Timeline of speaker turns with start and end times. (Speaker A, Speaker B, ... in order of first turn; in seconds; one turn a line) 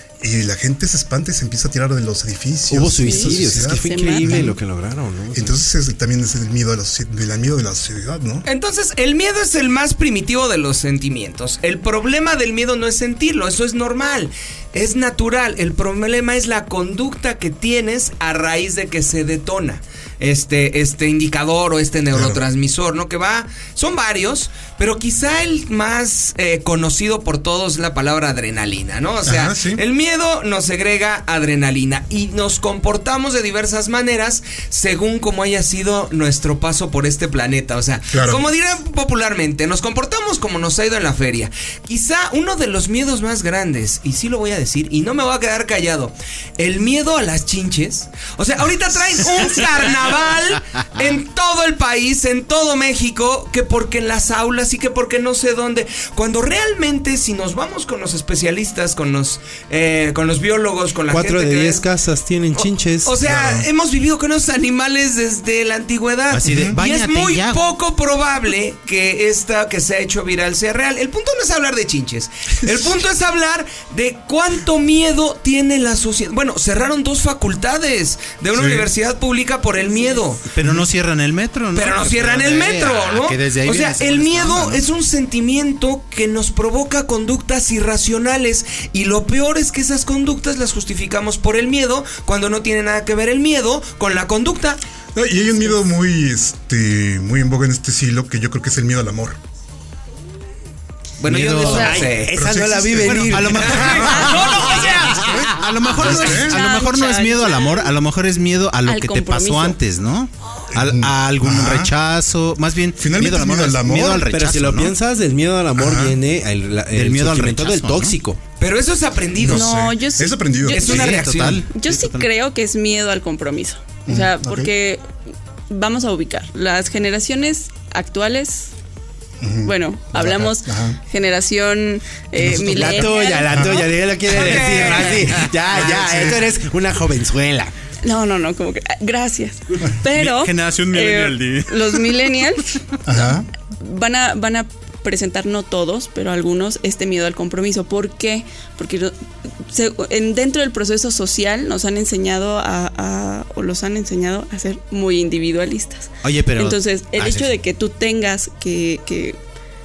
Speaker A: 0.2-4.5
Speaker B: 2.7-5.5
Speaker C: 3.0-4.5
Speaker A: 5.3-8.5
Speaker D: 8.4-61.8
Speaker A: 22.1-22.4
Speaker A: 29.2-29.8
Speaker A: 38.1-38.4
Speaker B: 61.1-63.1
Speaker D: 62.5-80.5
Speaker A: 63.2-63.6
Speaker E: 66.3-67.6
Speaker A: 66.5-66.8
Speaker A: 78.5-78.9
Speaker E: 80.5-84.8
Speaker D: 81.7-94.8
Speaker A: 95.1-99.4
Speaker D: 101.2-102.3
Speaker E: 101.2-102.1
Speaker B: 101.6-104.5
Speaker A: 102.3-105.4
Speaker E: 103.0-114.9
Speaker D: 103.7-105.4
Speaker A: 106.0-106.5
Speaker C: 106.1-107.9
Speaker C: 108.8-109.8
Speaker A: 110.7-111.9
Speaker A: 113.0-114.3
Speaker B: 114.2-118.4
Speaker A: 115.8-116.2
Speaker E: 116.9-118.2
Speaker D: 118.6-119.8
Speaker A: 119.4-121.0
Speaker C: 119.5-125.0
Speaker D: 120.7-121.6
Speaker E: 120.8-122.3
Speaker A: 124.1-124.7
Speaker C: 125.7-128.7
Speaker A: 129.4-131.0
Speaker C: 129.6-133.9
Speaker B: 132.4-137.7
Speaker A: 133.5-133.9
Speaker D: 134.3-135.5
Speaker C: 134.4-135.0
Speaker A: 135.9-136.4
Speaker C: 138.0-149.1
Speaker E: 140.1-142.5
Speaker A: 143.1-143.4
Speaker C: 149.7-159.4
Speaker E: 156.2-157.5